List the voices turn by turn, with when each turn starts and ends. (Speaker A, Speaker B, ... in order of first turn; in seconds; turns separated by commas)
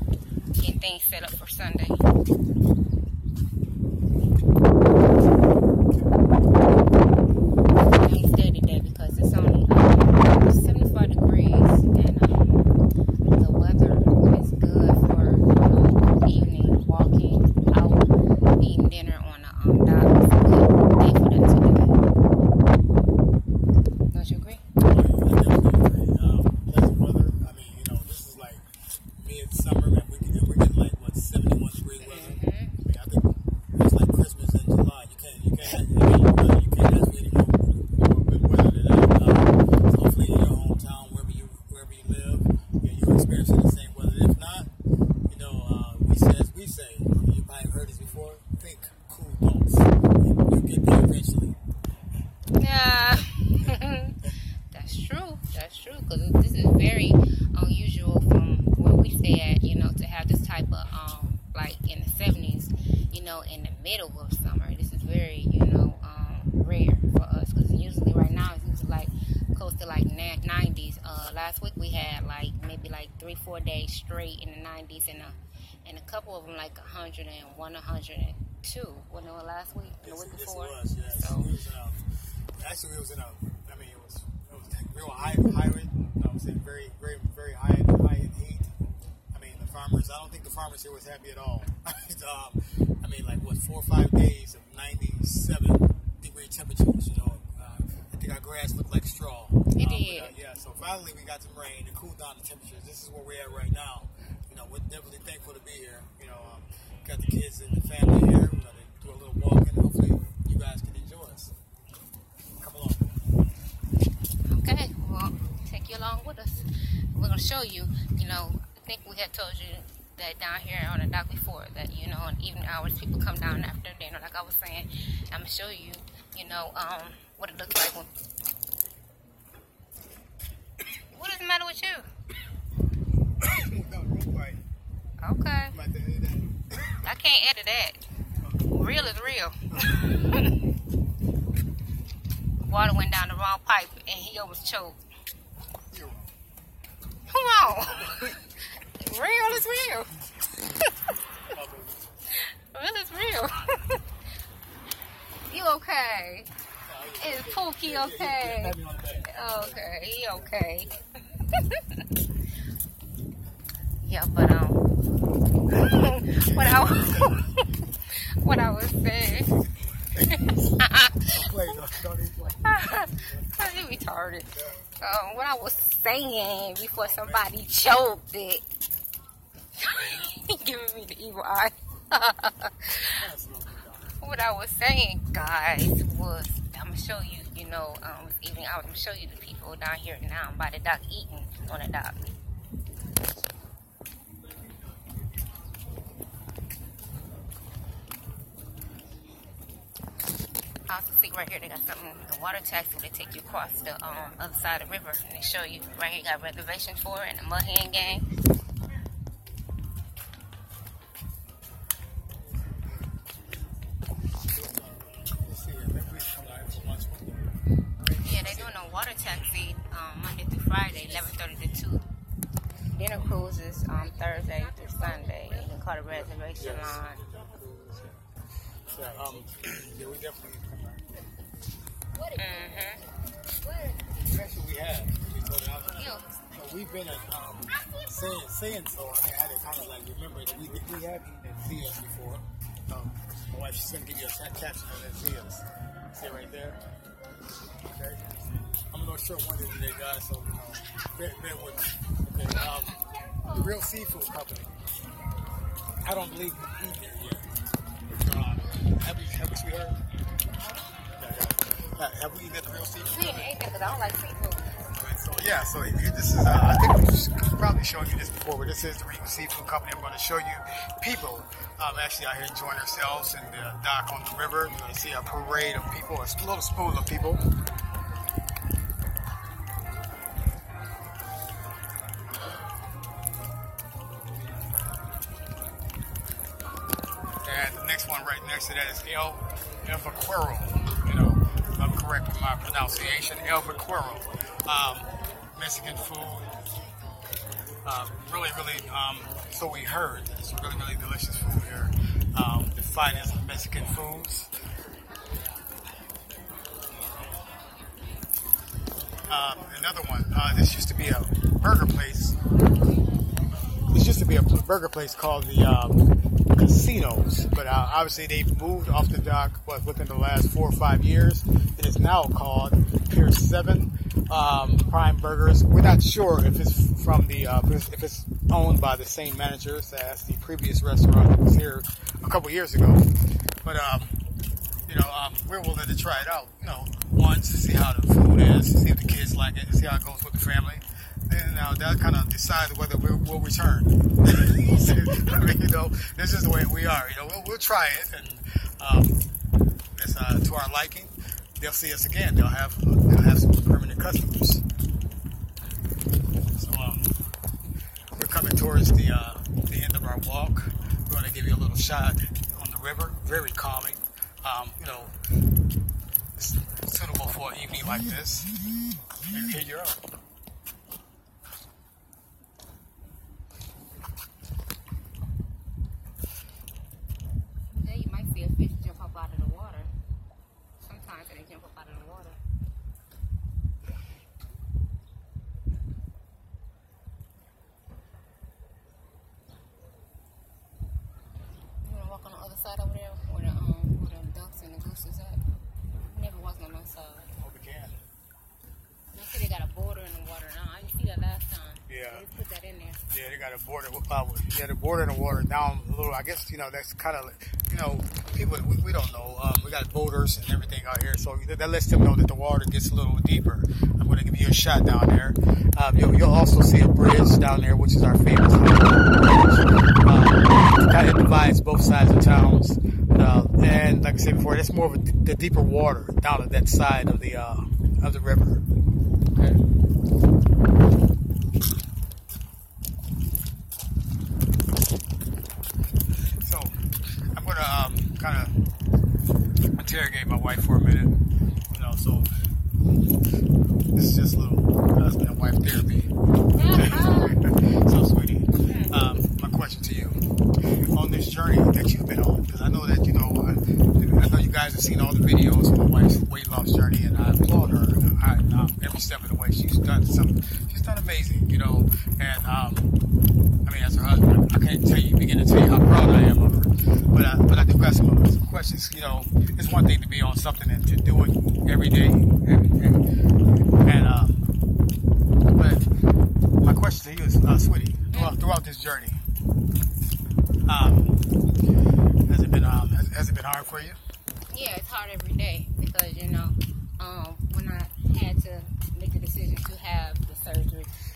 Speaker A: 0.6-2.0, Speaker A: 8.0-12.6, Speaker A: 13.3-22.0, Speaker A: 24.1-24.6, Speaker B: 24.8-28.6, Speaker B: 29.2-44.7, Speaker A: 32.0-32.8, Speaker B: 45.3-51.6, Speaker A: 52.6-81.5, Speaker B: 80.0-82.0, Speaker B: 82.6-88.7, Speaker B: 89.3-111.5, Speaker A: 99.7-100.3, Speaker B: 112.6-113.1, Speaker A: 114.5-128.1, Speaker A: 131.1-132.1, Speaker B: 133.4-134.6, Speaker A: 135.2-135.8, Speaker B: 135.7-137.0, Speaker A: 137.0-138.0, Speaker B: 138.4-140.1, Speaker A: 138.7-140.6, Speaker A: 142.6-145.0, Speaker B: 145.9-146.3, Speaker A: 147.3-150.1, Speaker A: 150.7-151.2, Speaker B: 151.4-152.0, Speaker A: 152.3-154.0, Speaker A: 155.5-156.5, Speaker B: 156.8-161.1, Speaker A: 157.2-162.0, Speaker A: 164.0-164.8, Speaker A: 165.7-169.5, Speaker B: 166.5-167.3, Speaker B: 170.0-173.7, Speaker A: 170.3-171.8, Speaker A: 172.6-178.6, Speaker B: 177.0-177.5, Speaker A: 179.8-183.2, Speaker B: 183.2-184.2, Speaker A: 184.2-192.3, Speaker A: 200.9-208.2, Speaker B: 212.4-213.1, Speaker B: 214.5-218.7, Speaker A: 218.2-222.1, Speaker A: 222.9-227.2, Speaker B: 226.6-228.2, Speaker B: 228.9-231.0, Speaker A: 232.3-233.0, Speaker B: 234.1-246.8, Speaker A: 235.9-236.2, Speaker B: 247.8-248.4, Speaker B: 248.9-254.8, Speaker B: 256.0-257.5, Speaker B: 258.1-260.0, Speaker B: 261.2-263.6, Speaker A: 263.1-264.7, Speaker B: 264.9-277.4, Speaker B: 287.4-296.5, Speaker B: 297.8-304.5, Speaker B: 309.3-312.4, Speaker B: 313.9-333.1, Speaker B: 333.6-334.2, Speaker B: 334.9-349.2, Speaker B: 350.0-354.6, Speaker B: 356.6-357.2, Speaker B: 358.1-365.1, Speaker B: 366.4-368.5, Speaker B: 369.3-370.0, Speaker A: 377.7-379.9, Speaker A: 380.8-382.4, Speaker A: 391.8-395.4, Speaker A: 396.0-397.3, Speaker B: 397.4-398.0, Speaker A: 399.1-403.0, Speaker B: 401.9-402.2, Speaker B: 403.1-428.6, Speaker B: 429.3-429.6, Speaker B: 436.4-436.8, Speaker B: 437.3-438.6, Speaker B: 439.8-442.3, Speaker B: 443.9-462.9, Speaker A: 446.5-447.4, Speaker A: 448.6-448.9, Speaker B: 463.6-474.4, Speaker B: 475.5-475.9, Speaker B: 476.6-479.2, Speaker A: 478.1-478.4, Speaker B: 480.7-481.2, Speaker B: 482.3-484.0, Speaker A: 484.5-490.9